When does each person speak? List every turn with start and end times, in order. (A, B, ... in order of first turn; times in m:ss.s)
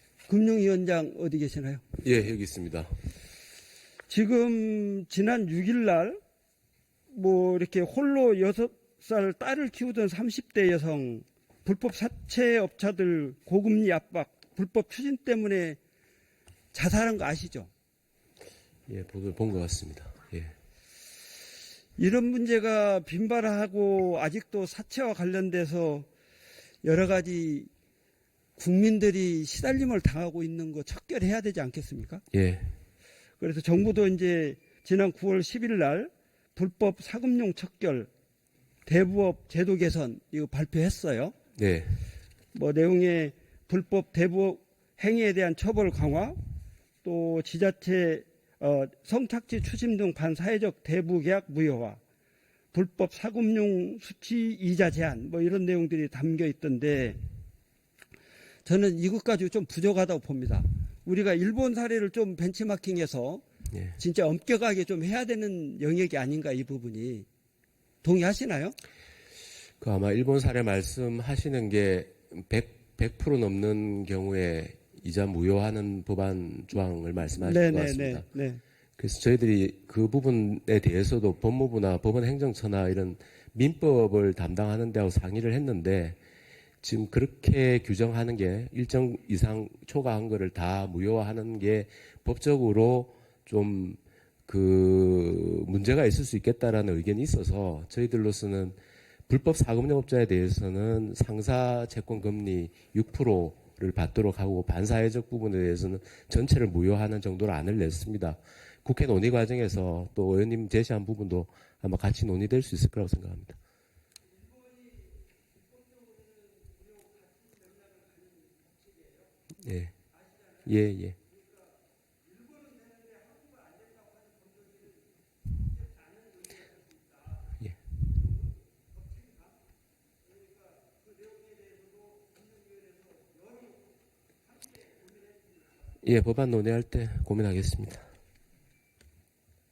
0:00.3-0:01.8 A
0:02.0-0:02.9 B
0:04.1-0:06.2 A
0:07.1-0:15.8 A
0:16.7-0:17.7 A
0:18.9-0:20.5 B
0:22.0-0:26.1 A
0:26.8-0:27.7 A
0:28.6-0:32.2 A
0:32.3-0:32.7 B
0:33.4-0:38.1 A
0:38.8-0:41.3 A
0:41.6-0:42.0 B
0:42.5-0:46.4 A
0:47.0-0:52.0 A
0:52.7-0:57.2 A
0:58.6-1:03.4 A
1:04.0-1:07.2 A
1:08.0-1:08.7 A
1:09.8-1:18.2 B
1:17.4-1:18.6 A
1:19.0-1:26.2 B
1:26.8-1:38.8 B
1:39.3-1:53.6 B
1:59.6-1:59.9 B
2:00.6-2:01.2 B
2:16.0-2:18.1 B